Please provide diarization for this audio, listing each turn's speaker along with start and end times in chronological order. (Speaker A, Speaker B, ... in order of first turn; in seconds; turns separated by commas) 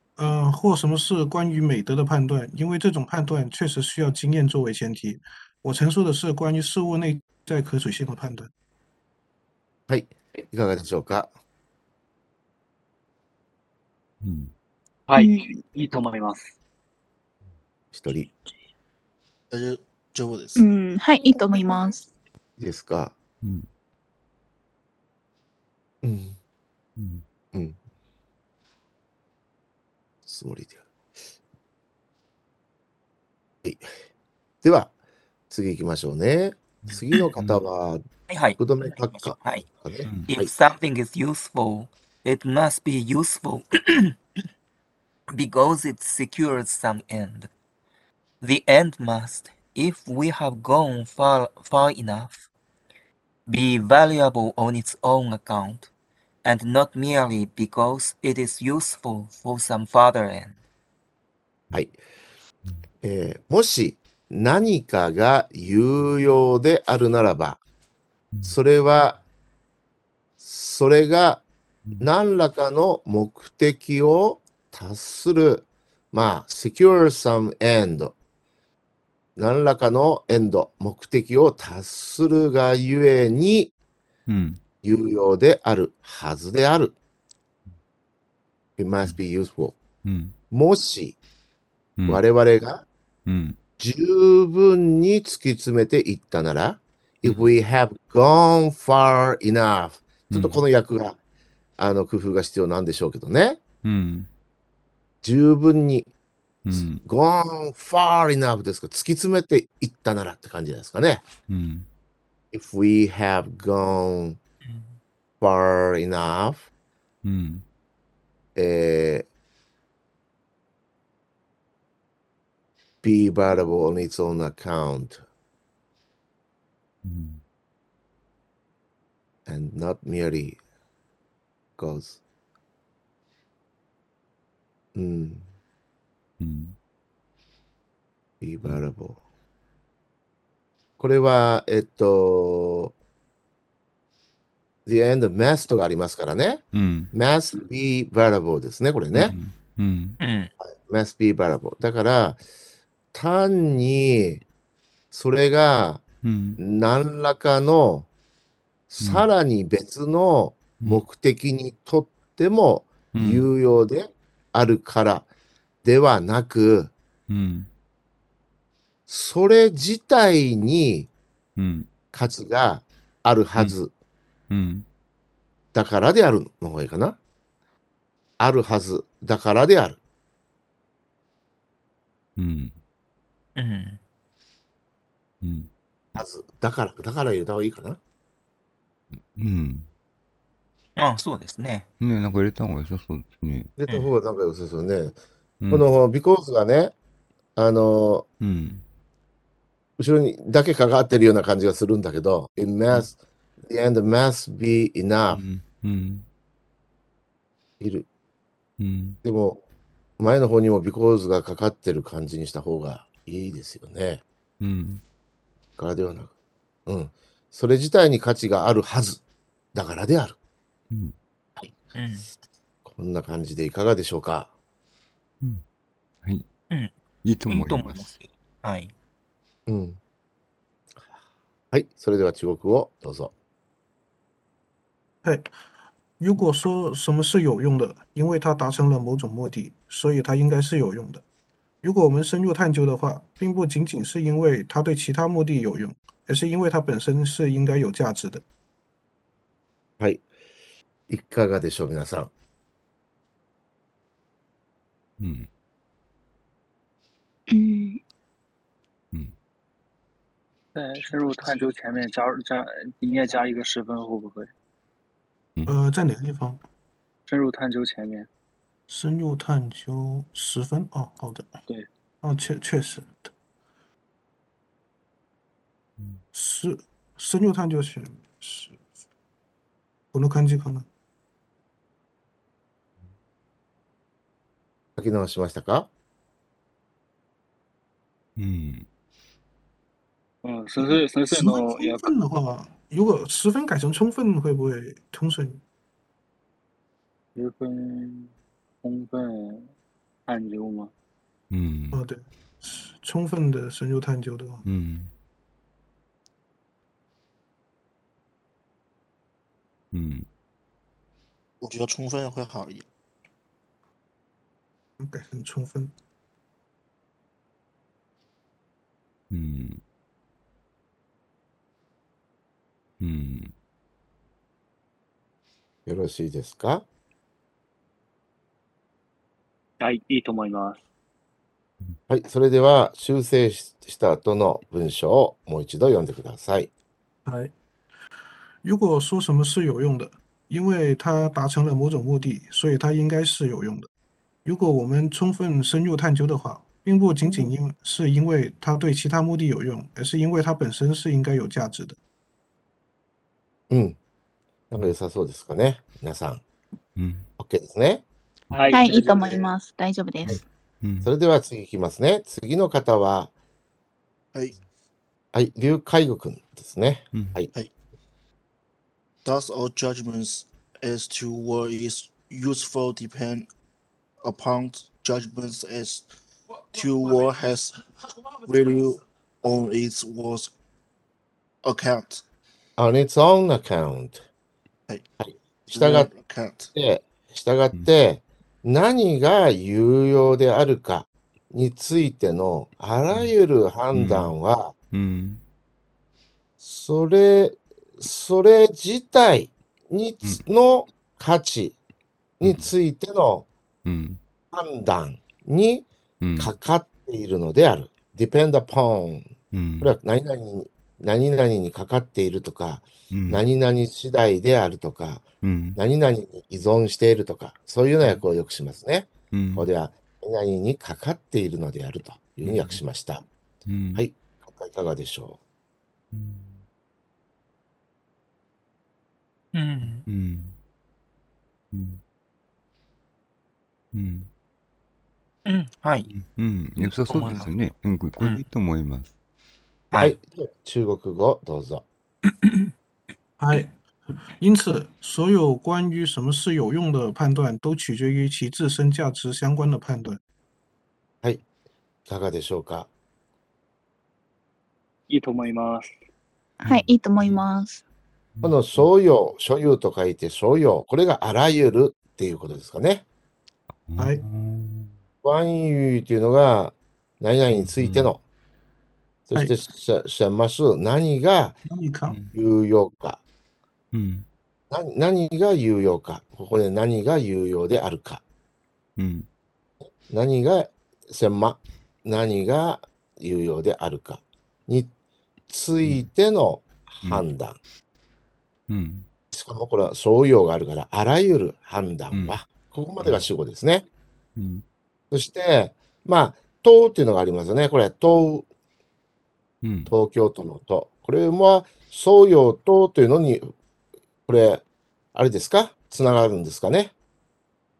Speaker A: 0.2-8.5, Speaker B: 9.9-11.3, Speaker C: 14.2-14.5, Speaker D: 15.1-16.5, Speaker E: 15.1-15.6, Speaker B: 17.9-18.3, Speaker F: 19.5-20.6, Speaker E: 20.6-22.1, Speaker B: 22.6-23.1, Speaker C: 23.4-23.7, Speaker B: 26.0-26.4, Speaker C: 27.0-27.2, Speaker B: 30.3-30.8, Speaker B: 34.6-34.9, Speaker B: 35.5-38.0, Speaker G: 38.3-39.7, Speaker B: 38.6-40.5, Speaker C: 40.0-40.3, Speaker G: 40.3-44.1, Speaker G: 45.3-47.5, Speaker G: 48.4-52.4, Speaker G: 53.5-55.9, Speaker G: 56.4-60.6, Speaker B: 63.0-67.6, Speaker B: 68.4-69.2, Speaker B: 70.4-71.4, Speaker B: 72.0-78.1, Speaker B: 79.4-83.7, Speaker C: 84.3-84.6, Speaker B: 84.8-86.9, Speaker B: 88.8-89.8, Speaker C: 90.0-90.3, Speaker B: 90.5-91.2, Speaker C: 92.0-92.2, Speaker B: 92.1-92.8, Speaker C: 93.2-93.6, Speaker B: 93.8-101.1, Speaker C: 97.2-97.5, Speaker C: 100.3-100.6, Speaker B: 101.8-103.6, Speaker C: 103.8-104.3, Speaker B: 105.2-106.1, Speaker C: 106.6-107.0, Speaker B: 107.0-111.2, Speaker C: 111.5-111.8, Speaker B: 112.5-114.4, Speaker B: 115.4-116.7, Speaker C: 117.2-117.6, Speaker B: 118.5-119.2, Speaker B: 123.0-125.2, Speaker C: 127.0-127.4, Speaker B: 129.5-130.6, Speaker B: 131.8-132.2, Speaker B: 134.9-135.4, Speaker C: 136.4-136.8, Speaker B: 138.4-139.2, Speaker B: 141.0-142.9, Speaker B: 144.8-149.3, Speaker C: 146.7-147.1, Speaker C: 149.1-150.2, Speaker G: 150.2-150.5, Speaker B: 150.6-152.4, Speaker B: 153.1-154.4, Speaker B: 155.1-156.0, Speaker C: 156.2-156.6, Speaker B: 156.6-158.1, Speaker B: 158.9-165.2, Speaker C: 159.0-159.3, Speaker C: 163.1-163.4, Speaker B: 165.8-166.9, Speaker C: 167.3-167.7, Speaker B: 169.1-171.1, Speaker C: 171.6-171.9, Speaker B: 172.1-173.9, Speaker C: 174.5-174.8, Speaker B: 175.7-177.2, Speaker B: 178.4-180.0, Speaker C: 182.4-182.7, Speaker G: 183.6-184.0, Speaker C: 185.4-185.7, Speaker B: 186.1-188.0, Speaker C: 189.2-189.9, Speaker G: 190.9-191.8, Speaker C: 192.0-193.7, Speaker B: 193.8-195.1, Speaker B: 195.7-196.9, Speaker B: 197.6-198.2, Speaker C: 198.4-198.8, Speaker B: 200.0-203.1, Speaker B: 203.7-205.4, Speaker C: 205.3-206.2, Speaker B: 207.8-208.1, Speaker C: 208.8-209.2, Speaker B: 209.2-209.6, Speaker B: 210.2-214.2, Speaker C: 214.6-215.0, Speaker B: 215.8-216.3, Speaker B: 216.9-219.2, Speaker B: 219.7-220.3, Speaker G: 221.9-222.3, Speaker B: 222.9-224.5, Speaker C: 227.2-228.1, Speaker G: 227.5-228.9, Speaker B: 229.7-230.0, Speaker B: 231.7-233.3, Speaker A: 235.2-235.5, Speaker A: 236.2-241.2, Speaker A: 241.8-248.4, Speaker B: 251.1-252.3, Speaker C: 255.2-255.5, Speaker E: 257.5-258.0, Speaker D: 260.7-264.5, Speaker A: 265.6-266.6, Speaker D: 267.3-268.3, Speaker A: 268.9-271.5, Speaker A: 272.2-273.3, Speaker A: 276.3-278.8, Speaker A: 280.1-280.9, Speaker B: 285.0-285.9, Speaker C: 288.4-288.9, Speaker D: 290.4-292.1, Speaker A: 290.8-295.6, Speaker D: 297.3-298.3, Speaker D: 298.8-299.7, Speaker D: 300.3-300.9, Speaker C: 301.5-302.0, Speaker A: 301.9-304.6, Speaker C: 304.6-305.1, Speaker C: 309.9-310.2, Speaker F: 311.6-312.9, Speaker A: 315.0-315.9, Speaker C: 319.3-319.8, Speaker C: 323.0-323.5, Speaker B: 325.9-326.8, Speaker D: 329.8-330.8, Speaker B: 332.1-336.7, Speaker A: 337.2-337.5, Speaker A: 338.6-343.9, Speaker A: 344.4-352.0, Speaker B: 353.7-353.9, Speaker B: 354.7-356.4, Speaker C: 356.9-357.2, Speaker B: 357.4-358.0, Speaker C: 358.5-358.8, Speaker D: 358.5-359.5, Speaker E: 358.7-360.4, Speaker C: 360.8-361.1, Speaker B: 361.0-363.3, Speaker B: 365.3-367.5, Speaker F: 369.2-373.5, Speaker F: 374.2-376.1, Speaker F: 376.7-377.8, Speaker F: 378.4-380.5, Speaker F: 381.6-382.2, Speaker B: 382.8-384.2, Speaker B: 385.2-386.1, Speaker F: 385.7-386.7, Speaker B: 386.7-394.7, Speaker C: 393.9-394.3, Speaker C: 394.9-395.4, Speaker B: 396.6-401.7, Speaker B: 402.4-403.4, Speaker C: 402.4-402.7, Speaker C: 403.9-404.2, Speaker B: 404.5-405.9, Speaker C: 406.2-406.5, Speaker B: 406.4-409.3, Speaker C: 409.5-409.9, Speaker B: 409.8-423.2, Speaker C: 413.1-413.4, Speaker C: 415.4-415.8, Speaker C: 419.3-419.7, Speaker C: 422.4-422.8, Speaker C: 423.7-424.0, Speaker B: 423.9-425.4, Speaker C: 426.1-426.6, Speaker G: 429.5-430.0, Speaker C: 429.9-430.6, Speaker C: 431.7-432.0, Speaker C: 433.9-434.3, Speaker G: 435.4-436.1, Speaker C: 436.1-439.1, Speaker G: 437.1-437.5, Speaker G: 438.2-438.4, Speaker B: 439.9-441.8, Speaker A: 443.4-443.7, Speaker A: 444.4-450.2, Speaker B: 452.1-452.9, Speaker D: 455.1-455.9, Speaker E: 456.6-457.8, Speaker C: 456.6-457.4, Speaker C: 458.4-458.9, Speaker B: 458.4-463.0, Speaker C: 463.7-464.9, Speaker A: 464.0-464.2, Speaker B: 465.2-468.2, Speaker C: 467.5-468.1, Speaker B: 469.3-471.5, Speaker A: 471.6-472.2, Speaker B: 472.3-473.2, Speaker C: 473.9-474.2, Speaker B: 474.7-478.2, Speaker C: 479.0-479.2, Speaker B: 480.1-484.9, Speaker B: 485.5-487.6, Speaker C: 488.7-489.1, Speaker B: 489.3-493.8, Speaker C: 493.0-493.2, Speaker C: 494.4-494.6, Speaker B: 495.1-498.4, Speaker C: 499.6-499.9, Speaker B: 499.9-503.5, Speaker B: 504.3-504.6, Speaker B: 505.1-506.9